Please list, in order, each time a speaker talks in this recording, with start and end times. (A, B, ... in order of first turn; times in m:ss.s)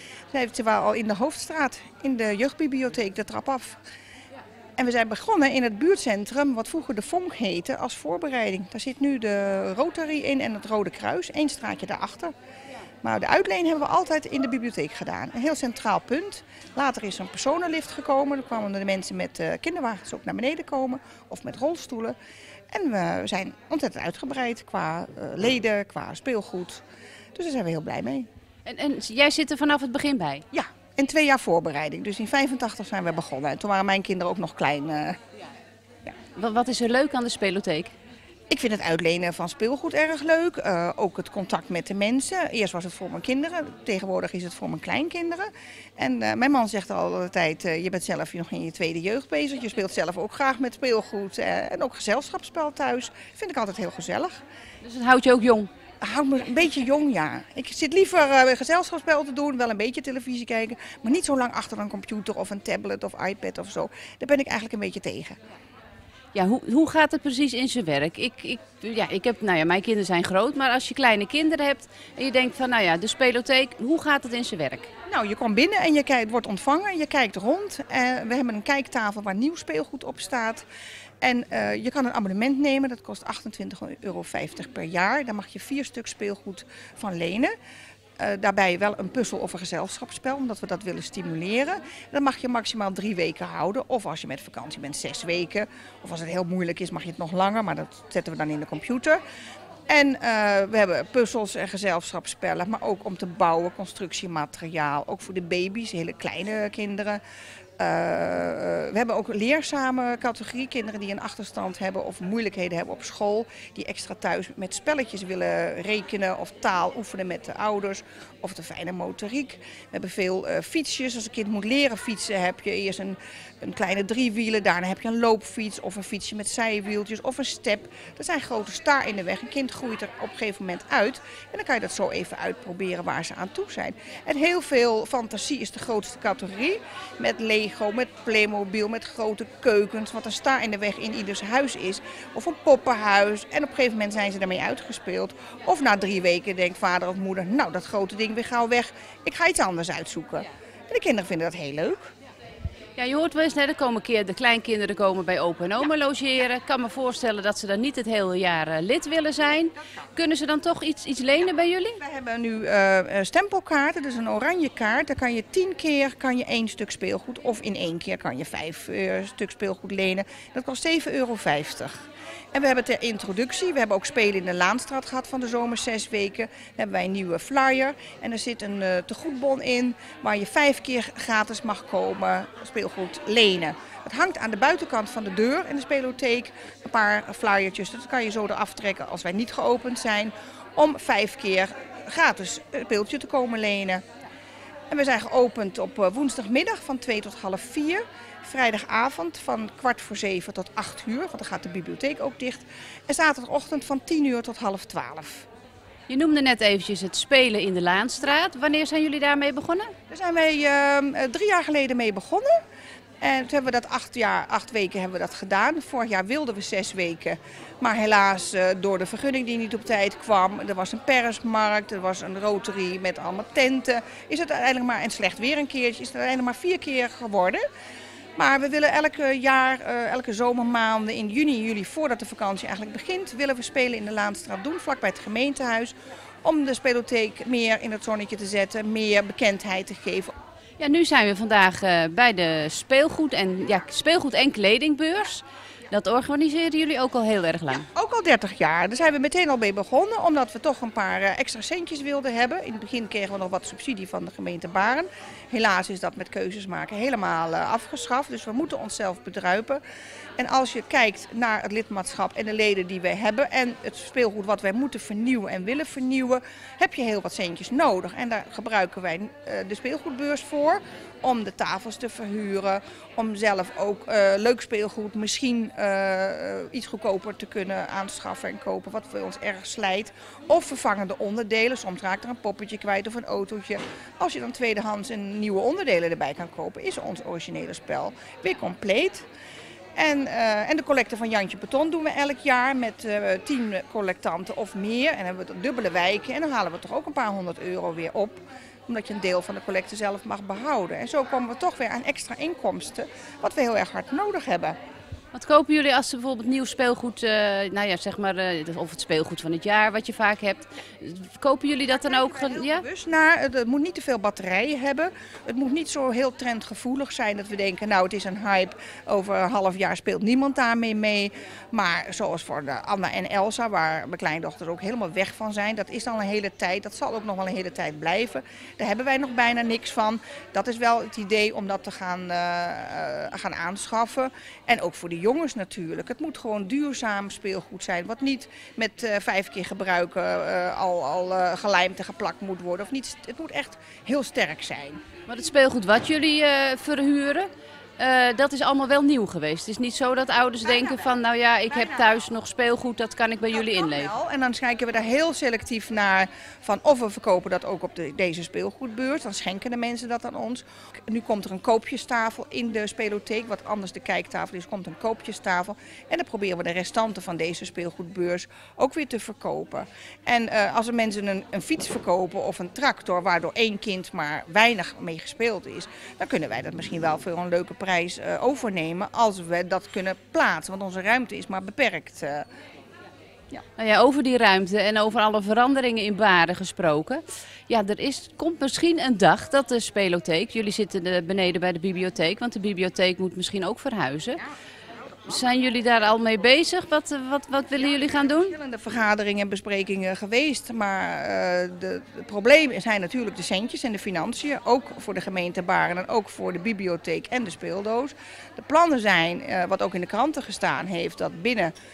0:00.3-0:03.8 A
0:04.8-0:12.3 A
0:13.0-0:22.2 A
0:22.7-0:26.8 A
0:27.3-0:28.3 A
0:28.6-0:30.4 B
0:30.5-0:35.2 A
0:36.3-0:37.9 B
0:38.5-0:54.4 A
0:54.8-0:55.7 B
0:56.0-1:05.4 A
1:06.3-1:14.9 B
1:15.1-1:20.6 A
1:21.2-1:27.5 A
1:28.2-1:39.2 A
1:39.9-1:47.2 A
1:47.8-2:32.1 A
2:33.0-2:42.0 B
2:42.0-2:52.0 A
2:52.5-3:14.0 A
3:14.9-3:25.4 A
3:26.1-3:29.9 B
3:30.1-3:32.6 A
3:33.2-3:47.6 A
3:48.4-4:00.3 A
4:00.8-4:07.8 B
4:07.7-4:19.8 A
4:20.4-4:49.2 A
4:50.0-5:04.8 A
5:05.3-5:12.8 B
5:11.9-5:45.0 A
5:45.3-5:54.1 B
5:50.6-5:51.1 A
5:51.7-5:52.0 A
5:53.5-6:22.5 A
6:23.8-6:34.4 B
6:35.2-6:38.5 B
6:37.8-6:51.7 A